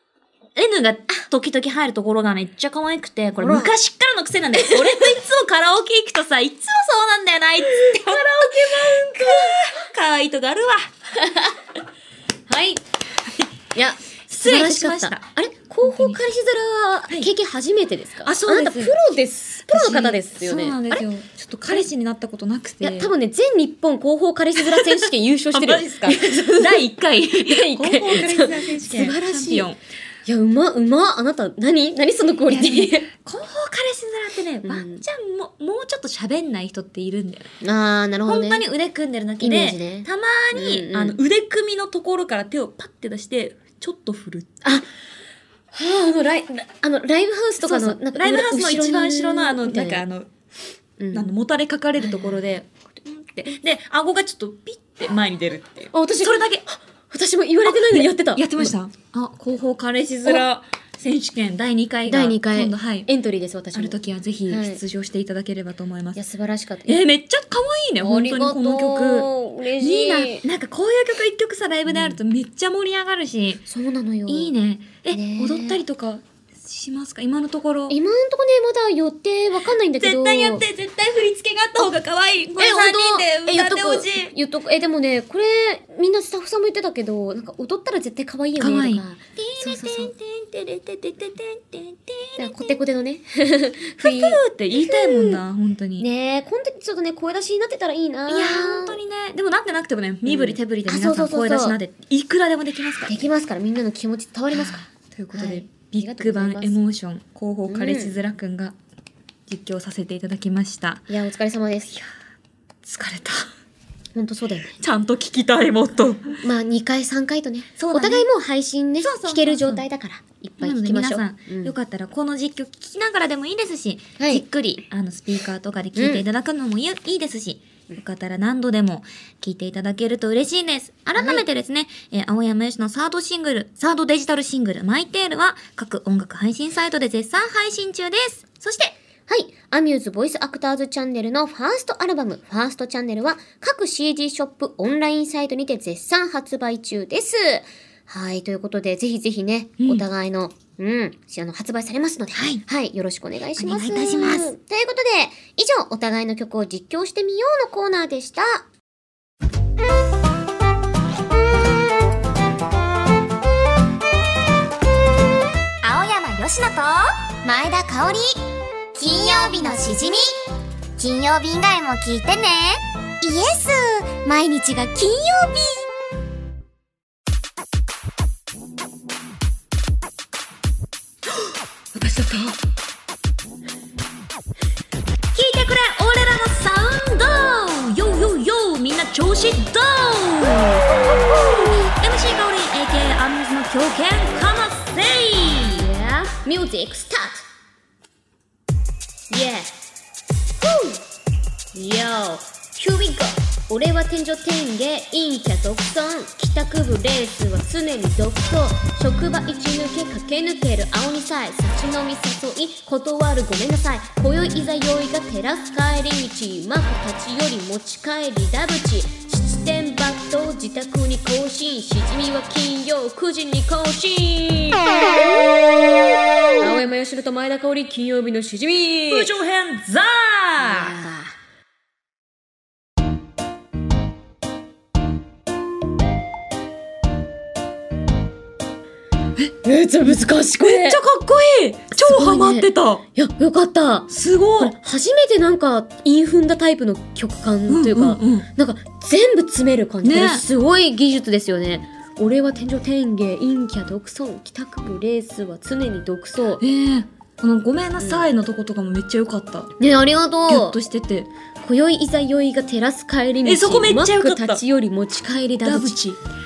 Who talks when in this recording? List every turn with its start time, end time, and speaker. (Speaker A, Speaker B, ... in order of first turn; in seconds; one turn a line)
Speaker A: 0.6-10.8
Speaker B: 3.4-3.7
Speaker B: 4.6-5.0
Speaker B: 7.8-9.6
Speaker B: 11.2-11.6
Speaker B: 12.5-12.8
Speaker B: 13.7-21.0
Speaker A: 14.3-15.2
Speaker A: 15.8-16.2
Speaker A: 18.2-18.9
Speaker A: 19.7-23.1
Speaker B: 22.8-26.8
Speaker A: 24.6-29.8
Speaker B: 27.4-29.7
Speaker B: 30.3-33.1
Speaker A: 32.5-37.5
Speaker B: 34.6-35.0
Speaker B: 37.6-38.6
Speaker A: 38.3-44.6
Speaker B: 39.4-41.2
Speaker B: 45.7-50.0
Speaker A: 47.6-50.3
Speaker B: 51.0-51.3
Speaker A: 51.1-56.6
Speaker B: 52.0-52.4
Speaker B: 55.9-58.7
Speaker A: 57.7-63.1
Speaker B: 62.1-64.8
Speaker A: 63.7-66.2
Speaker B: 66.2-67.0
Speaker A: 66.9-73.6
Speaker B: 68.0-70.5
Speaker B: 71.9-72.2
Speaker B: 73.7-74.5
Speaker A: 74.3-78.0
Speaker B: 75.1-75.8
Speaker B: 77.9-80.7
Speaker A: 80.0-84.3
Speaker B: 82.6-90.1
Speaker A: 88.6-92.8
Speaker B: 92.4-95.4
Speaker A: 94.0-96.1
Speaker B: 96.0-99.0
Speaker A: 98.3-103.3
Speaker B: 100.3-101.8
Speaker B: 103.1-106.8
Speaker A: 104.5-108.8
Speaker B: 107.7-108.2
Speaker A: 109.5-111.1
Speaker B: 111.1-111.9
Speaker A: 112.8-113.5
Speaker B: 114.2-114.8
Speaker A: 114.8-116.4
Speaker B: 116.4-121.7
Speaker A: 117.8-118.3
Speaker A: 119.0-119.8
Speaker A: 120.6-138.9
Speaker B: 124.2-124.4
Speaker B: 126.0-126.2
Speaker B: 131.2-131.4
Speaker B: 139.3-158.7
Speaker A: 149.8-150.0
Speaker A: 152.3-152.6
Speaker A: 153.6-154.5
Speaker C: 165.8-170.4
Speaker C: 171.0-175.9
Speaker A: 181.9-182.6
Speaker A: 185.3-190.9
Speaker B: 190.9-191.9
Speaker A: 191.9-195.9
Speaker B: 195.8-197.5
Speaker B: 199.3-199.7
Speaker B: 200.6-201.0
Speaker B: 201.7-225.2
Speaker B: 226.6-229.3
Speaker A: 229.1-231.1
Speaker B: 230.6-231.3
Speaker B: 239.6-241.0
Speaker A: 240.6-243.0
Speaker B: 241.9-256.6
Speaker A: 244.1-244.8
Speaker A: 247.7-248.5
Speaker A: 250.0-250.4
Speaker A: 256.6-259.7
Speaker B: 258.0-258.3
Speaker B: 259.8-260.8
Speaker A: 260.5-261.3
Speaker B: 261.6-266.0
Speaker A: 263.4-264.6
Speaker A: 265.6-266.2